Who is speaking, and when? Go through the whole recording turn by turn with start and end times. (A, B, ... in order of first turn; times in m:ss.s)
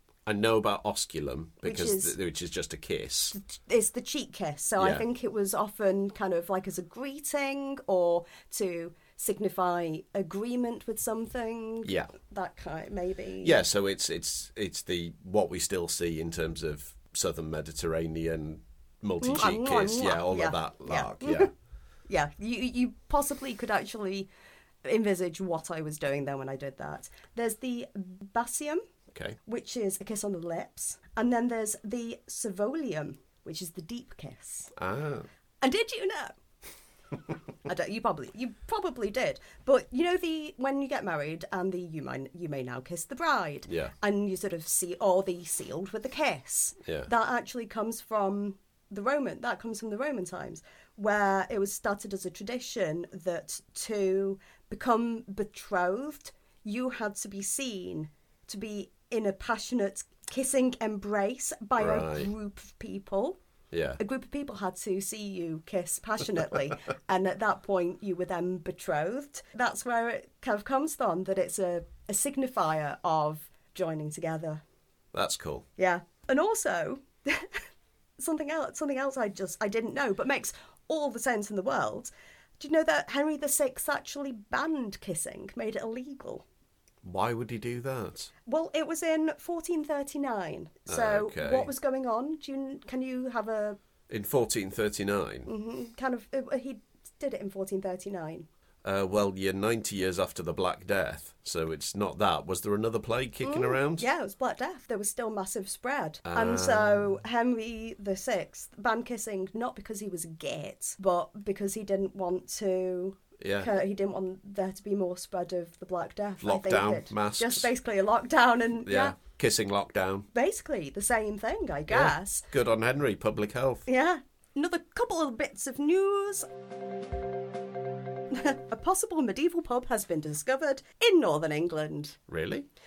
0:00.3-0:03.4 A
0:01.6-0:02.2 B
0:03.3-0:13.6 B
0:04.8-0:05.0 A
0:11.8-0:12.1 A
0:13.4-0:21.5 A
0:19.2-0:21.5 B
0:22.1-0:24.3 B
0:24.8-0:28.8 B
0:29.1-0:29.4 A
0:29.5-0:34.7 B
0:34.8-0:35.3 A
0:35.6-0:36.4 B
0:37.6-1:03.4 B
0:43.7-0:43.9 A
1:01.8-1:02.3 A
1:03.7-1:04.0 A
1:04.0-1:14.6 B
1:15.1-1:15.7 A
1:15.8-1:17.6 B
1:18.2-1:26.4 B
1:27.0-1:28.3 A
1:28.5-1:33.8 B
1:30.9-1:31.7 A
1:34.1-1:35.5 A
1:35.5-1:38.5 B
1:38.8-1:44.1 A
1:43.4-1:59.2 B
1:46.3-1:47.1 A
1:53.4-1:53.7 A
1:56.4-1:57.7 A
1:58.8-2:00.3 A
2:00.3-2:02.5 B
2:01.9-2:03.9 A
2:03.9-2:06.5 B
2:08.3-2:12.2 B
2:12.3-2:12.7 A